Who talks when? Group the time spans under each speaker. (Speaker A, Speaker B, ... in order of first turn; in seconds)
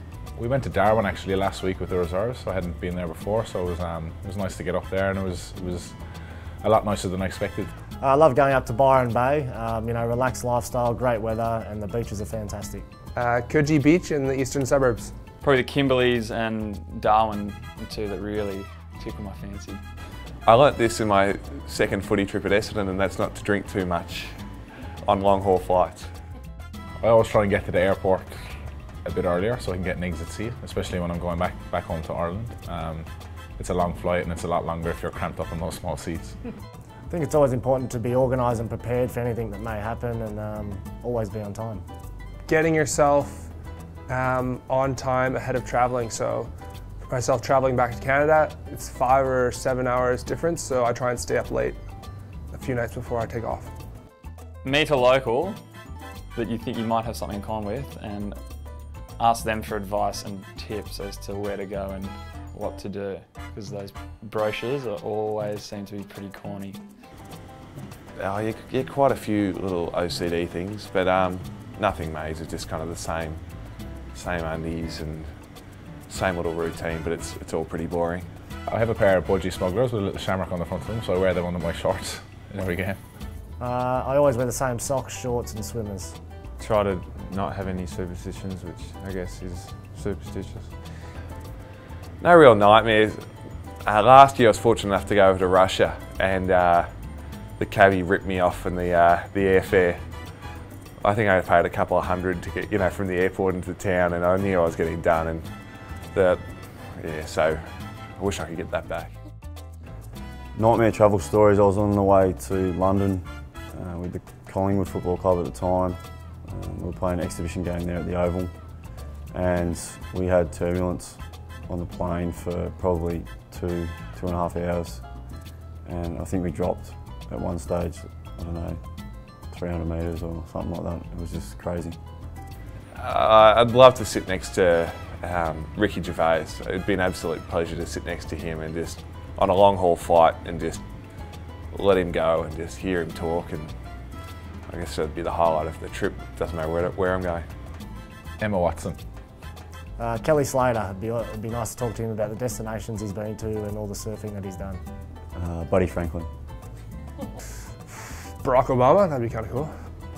Speaker A: 0.4-6.0, 6.6-7.7, 27.0-28.4, 29.0-36.4, 78.7-83.0, 148.4-149.0
Speaker B: 8.0-12.9, 37.1-41.8, 83.6-86.2, 150.0-154.8
Speaker C: 13.2-15.1, 42.5-43.5, 44.1-51.8, 52.5-53.7, 158.4-159.8
Speaker D: 15.4-19.8, 54.6-55.6, 56.3-66.8
Speaker E: 20.4-26.1, 68.2-78.3, 92.2-100.4, 101.0-109.2, 132.9-140.8, 141.7-147.5
Speaker F: 86.6-91.2
Speaker G: 110.5-128.8, 129.4-132.0, 155.3-156.3